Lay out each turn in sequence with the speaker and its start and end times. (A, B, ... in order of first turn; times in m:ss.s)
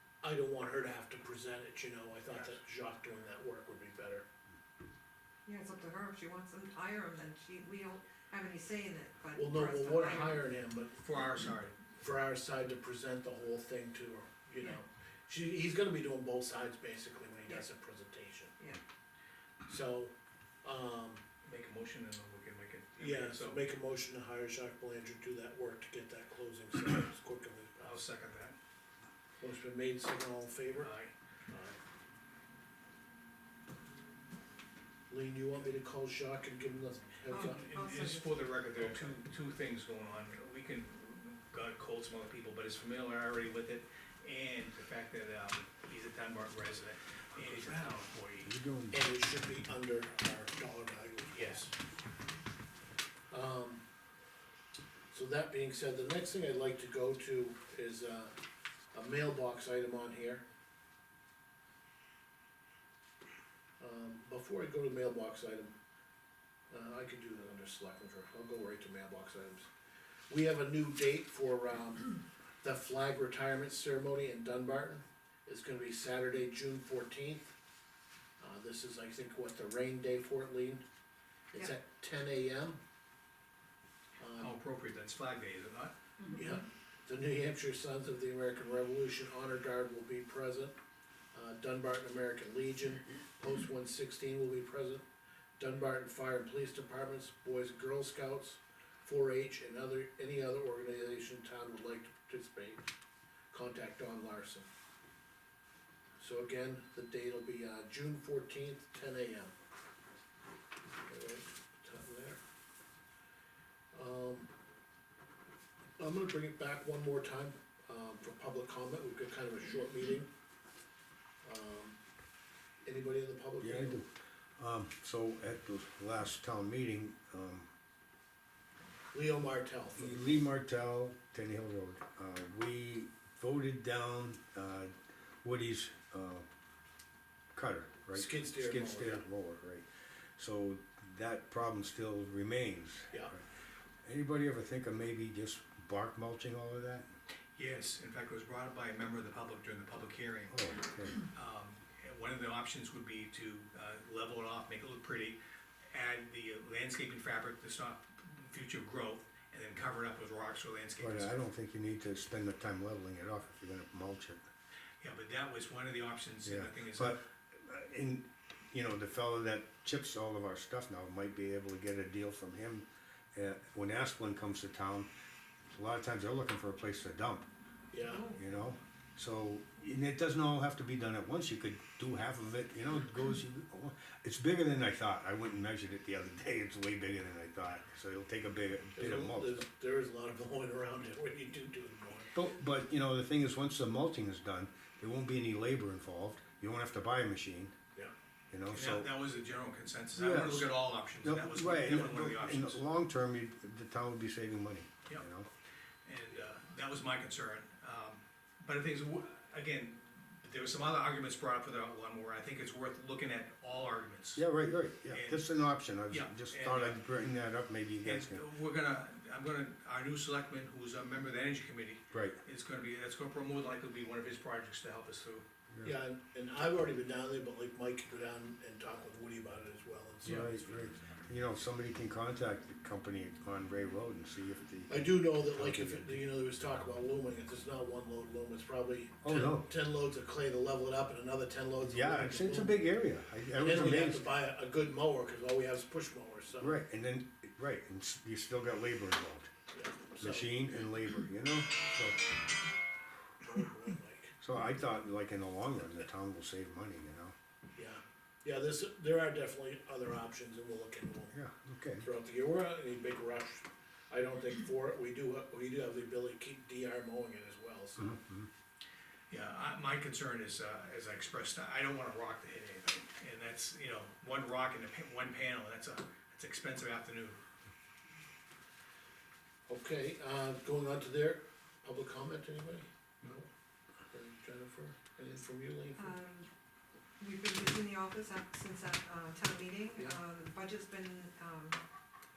0:00.2-0:04.2 A
0:05.4-0:10.4 B
0:09.3-0:11.0 A
0:11.0-0:11.8 C
0:11.9-0:18.6 A
0:19.7-0:20.1 A
0:20.6-0:21.2 A
0:21.4-0:23.6 C
0:23.0-0:28.0 A
0:27.8-0:28.6 C
0:29.4-0:30.9 A
0:30.8-0:31.1 C
0:31.5-0:31.8 A
0:35.1-0:37.6 A
0:37.3-0:39.1 B
0:37.3-0:48.5 C
0:48.4-0:49.0 D
0:48.9-0:51.7 A
0:51.4-0:51.7 C
0:53.3-0:53.8 A
0:55.1-0:58.3 A
0:58.9-1:00.4 A
1:03.8-1:05.7 A
1:06.7-1:09.7 A
1:10.3-1:17.6 A
1:18.4-1:20.8 A
1:21.5-1:22.8 A
1:24.2-1:24.6 A
1:24.4-1:25.9 C
1:26.2-1:26.6 B
1:26.3-1:30.7 A
1:31.3-1:35.0 A
1:35.6-1:42.8 A
1:43.5-1:44.7 A
1:46.2-1:49.5 A
1:51.0-1:52.4 A
1:53.9-1:54.5 A
1:56.0-2:00.3 A
2:01.4-2:02.0 A
2:02.8-2:04.0 A
2:03.6-2:07.7 D
2:09.1-2:10.4 A
2:10.0-2:16.4 D
2:17.5-2:23.4 D
2:18.1-2:19.2 A
2:24.0-2:27.1 D
2:27.6-2:30.6 C
2:30.5-2:31.2 D
2:31.2-2:35.4 C
2:35.9-2:41.4 C
2:41.0-2:44.4 D
2:45.0-2:47.2 C
2:46.4-2:55.1 D
2:55.7-2:57.5 D
2:57.9-2:58.3 A
2:58.1-2:58.4 B
2:58.3-3:09.6 D
3:08.9-3:12.4 A
3:12.3-3:17.7 D
3:18.5-3:19.1 D
3:18.7-3:22.8 C
3:20.1-3:25.5 D
3:26.0-3:34.4 C
3:34.3-3:38.4 D
3:35.1-3:35.4 C
3:36.1-3:37.0 C
3:38.0-3:45.4 C
3:42.1-3:42.4 D
3:45.7-3:46.0 D
3:45.8-3:50.8 A
3:50.2-3:56.1 D
3:54.9-4:02.8 A
3:59.2-3:59.7 D
4:01.9-4:04.3 D
4:03.6-4:06.8 A
4:06.6-4:09.5 D
4:09.7-4:10.5 A
4:10.2-4:12.2 D
4:13.4-4:14.3 A
4:14.4-4:17.3 D
4:17.8-4:21.4 A
4:21.3-4:22.1 D
4:22.0-4:28.2 A
4:28.0-4:28.5 D
4:29.3-4:37.4 C
4:39.7-4:43.5 A
4:44.1-4:46.2 A
4:46.0-4:46.5 B
4:47.2-4:51.8 B